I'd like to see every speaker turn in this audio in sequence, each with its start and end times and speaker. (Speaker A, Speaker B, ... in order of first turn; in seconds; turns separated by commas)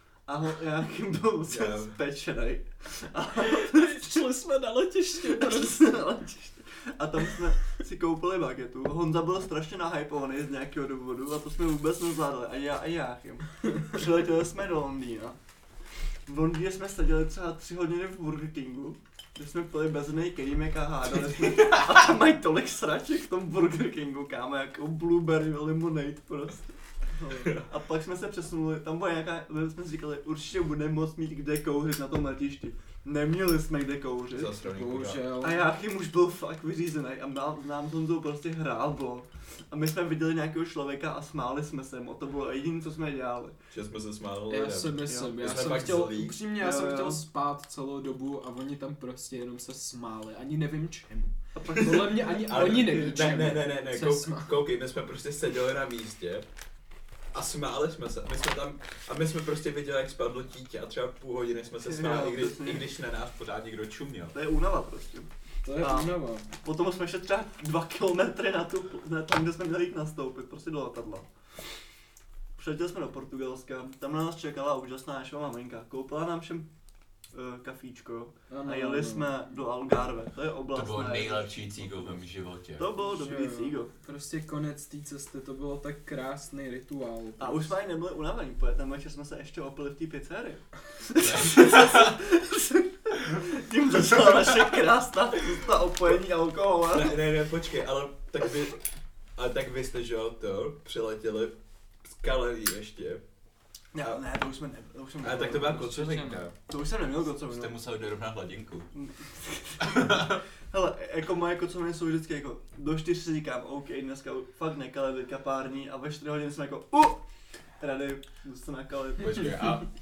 Speaker A: 0.3-4.1, Speaker B: 1.5-1.9, Speaker C: 3.4-6.0, Speaker A: 5.2-15.4, Speaker A: 16.3-34.5, Speaker B: 27.4-27.7, Speaker B: 34.3-35.3, Speaker C: 34.7-35.6, Speaker A: 35.4-43.6, Speaker B: 43.7-46.4, Speaker C: 44.5-54.6, Speaker A: 45.1-45.3, Speaker A: 46.6-47.2, Speaker A: 51.5-53.4, Speaker B: 52.0-56.4, Speaker B: 57.3-64.3, Speaker A: 61.8-62.9, Speaker A: 64.3-71.3, Speaker C: 65.6-66.5, Speaker A: 72.5-76.7, Speaker A: 77.3-82.2, Speaker C: 78.5-79.3, Speaker B: 80.7-82.9, Speaker A: 82.8-83.9, Speaker C: 83.0-87.7, Speaker A: 87.4-97.2, Speaker B: 91.2-92.2, Speaker B: 96.9-98.8, Speaker B: 99.3-103.2, Speaker A: 103.9-106.0, Speaker B: 105.2-106.5, Speaker C: 105.6-106.5, Speaker A: 106.7-107.7, Speaker B: 107.5-108.9, Speaker A: 108.9-117.2, Speaker B: 109.8-110.4, Speaker A: 117.8-119.5, Speaker B: 119.2-119.9, Speaker C: 119.4-119.8